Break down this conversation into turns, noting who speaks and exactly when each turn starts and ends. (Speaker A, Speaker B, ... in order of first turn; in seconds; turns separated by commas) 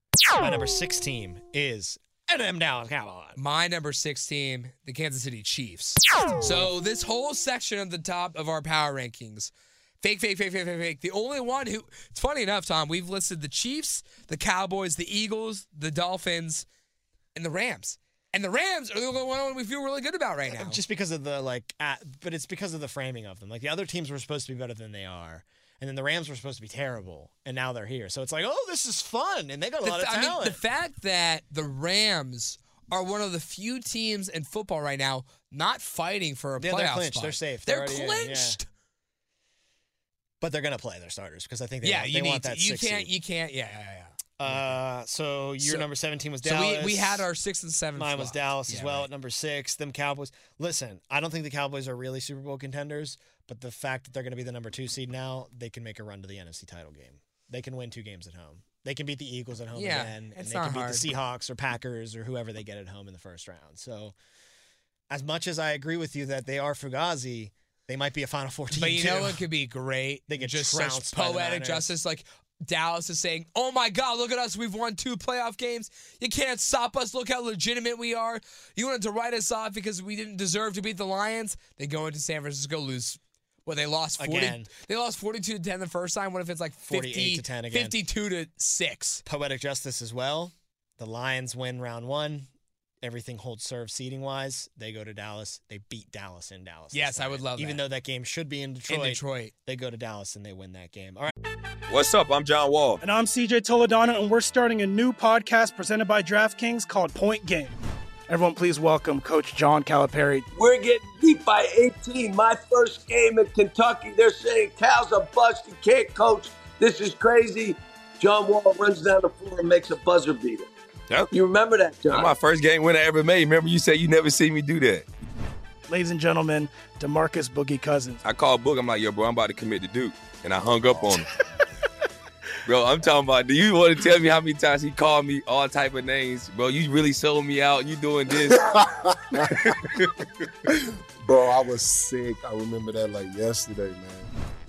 Speaker A: 0.4-3.4, Speaker B: 3.4-9.5, Speaker A: 6.4-6.7, Speaker B: 10.0-16.6, Speaker B: 17.3-20.8, Speaker A: 20.5-30.6, Speaker B: 29.8-38.6, Speaker A: 36.6-38.6, Speaker A: 40.4-43.1, Speaker B: 41.8-44.7, Speaker A: 44.4-47.3, Speaker B: 45.6-45.9, Speaker B: 46.4-49.1, Speaker A: 48.0-64.2, Speaker B: 59.7-61.1, Speaker A: 65.1-69.4, Speaker B: 68.7-89.2, Speaker A: 70.3-72.0, Speaker A: 84.2-84.7, Speaker A: 86.9-87.9, Speaker A: 89.2-92.5, Speaker A: 93.0-101.3, Speaker B: 96.9-97.8, Speaker B: 98.9-99.5, Speaker C: 101.9-103.0, Speaker D: 103.0-107.8, Speaker D: 108.3-110.5, Speaker E: 110.5-120.7, Speaker E: 121.3-122.3, Speaker C: 122.1-125.1, Speaker D: 125.9-128.2, Speaker C: 128.2-131.3, Speaker C: 132.7-138.7, Speaker F: 138.5-140.1, Speaker F: 141.2-144.3